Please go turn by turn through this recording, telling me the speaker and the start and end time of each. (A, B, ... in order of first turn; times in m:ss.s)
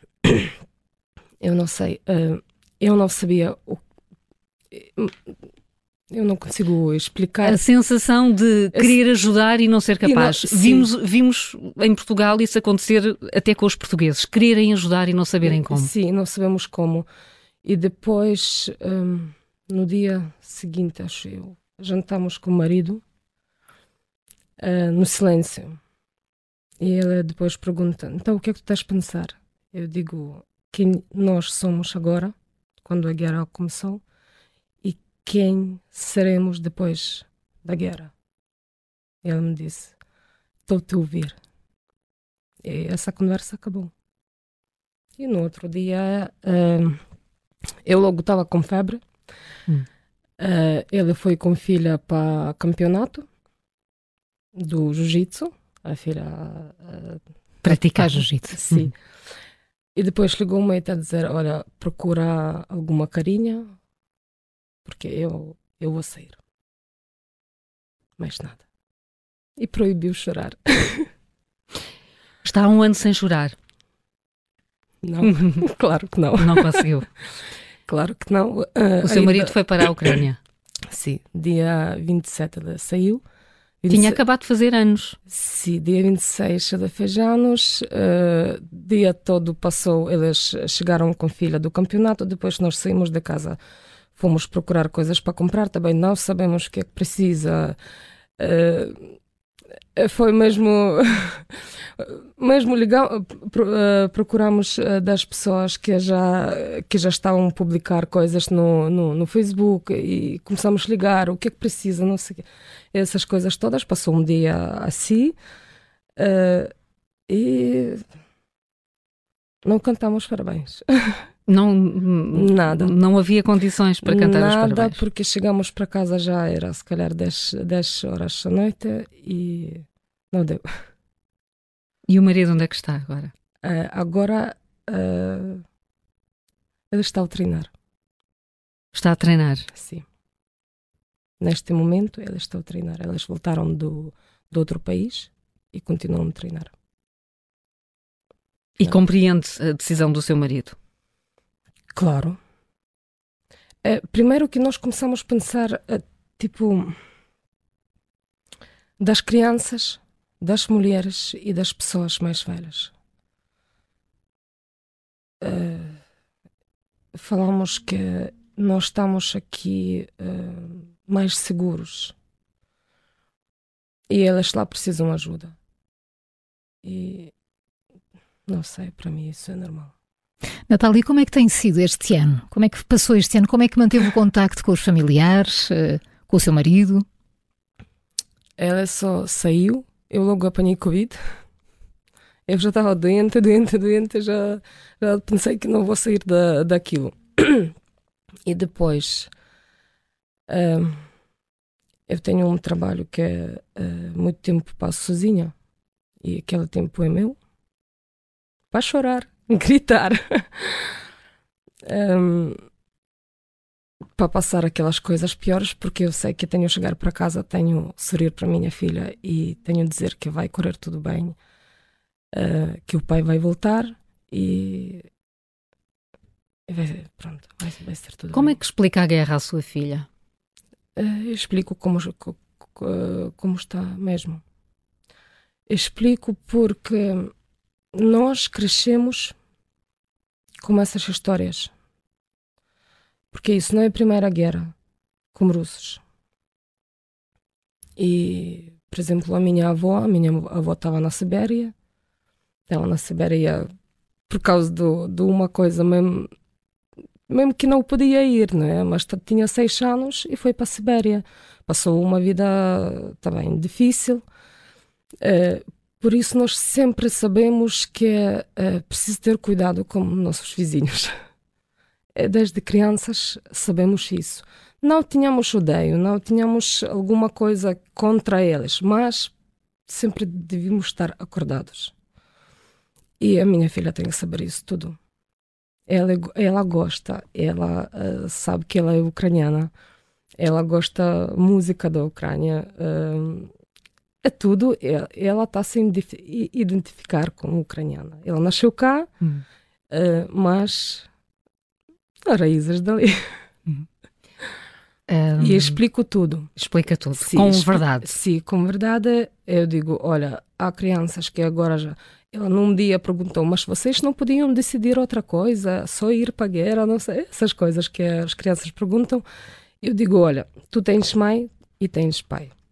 0:00.2-0:00.6 A
0:01.4-0:03.8 A
0:04.7-0:05.2 A
0:06.1-0:07.6 A
0:07.4-0:15.9 B
0:10.0-0:10.9 A
0:15.4-0:17.1 A
0:17.6-0:23.0 A
0:24.6-0:25.8 A
0:26.8-0:34.0 A
0:34.8-0:38.1 A
0:39.2-0:40.0 A
0:40.7-0:41.4 A
0:42.6-0:43.9 A
0:45.2-0:47.0 A
0:47.8-0:49.0 A
0:50.4-0:53.2 A
0:54.6-0:58.9 A
0:57.6-0:58.9 B
1:00.0-1:03.7 A
1:04.8-1:06.4 A
1:08.2-1:08.6 A
1:09.6-1:11.1 A
1:12.4-1:13.6 B
1:15.0-1:16.9 A
1:15.3-1:15.6 B
1:16.4-1:17.1 B
1:17.9-1:20.2 A
1:19.0-1:20.4 B
1:20.9-1:23.2 A
1:23.8-1:24.2 A
1:23.9-1:25.2 B
1:25.3-1:33.6 A
1:34.2-1:37.8 A
1:38.4-1:39.2 A
1:40.0-1:55.4 A
1:56.2-1:56.7 A
1:57.3-1:58.0 A
1:59.6-2:01.2 A
2:01.5-2:05.0 B
2:02.3-2:02.9 A
2:04.0-2:10.8 A
2:12.1-2:13.3 B
2:13.6-2:15.6 A
2:16.9-2:17.7 A
2:18.9-2:19.7 B
2:19.7-2:20.0 A
2:21.4-2:26.7 A
2:28.8-2:30.8 B
2:32.0-2:32.4 A
2:33.8-2:37.0 A
2:39.0-2:42.9 A
2:45.4-2:46.0 A
2:47.1-2:52.2 A
2:54.1-2:55.6 A
2:56.8-2:57.3 A
2:58.5-2:59.9 A
3:00.7-3:07.0 C
3:08.6-3:11.2 A
3:12.5-3:17.7 A
3:18.4-3:19.3 A
3:20.5-3:21.0 A
3:22.1-3:25.5 A
3:26.2-3:27.4 A
3:28.7-3:31.0 A
3:31.8-3:32.6 A
3:34.2-3:41.4 A
3:42.3-3:45.1 A
3:46.7-3:48.6 A
3:48.3-3:50.1 B
3:51.0-3:54.4 A
3:55.7-3:57.3 A
3:57.9-3:59.4 A
4:00.6-4:01.7 A
4:03.3-4:04.7 A
4:05.3-4:06.0 A
4:08.0-4:11.7 A
4:12.7-4:13.7 A
4:14.3-4:16.3 A
4:17.3-4:24.2 A
4:25.2-4:31.1 A
4:32.2-4:39.3 A
4:39.9-4:41.9 A
4:43.2-4:45.0 A
4:45.9-4:49.7 A
4:50.4-4:53.5 A
4:54.2-4:59.1 A
4:59.9-5:01.1 A
5:02.3-5:03.2 A
5:05.1-5:05.8 B
5:05.4-5:06.5 A
5:06.6-5:08.1 B
5:07.2-5:19.2 A
5:19.8-5:22.5 A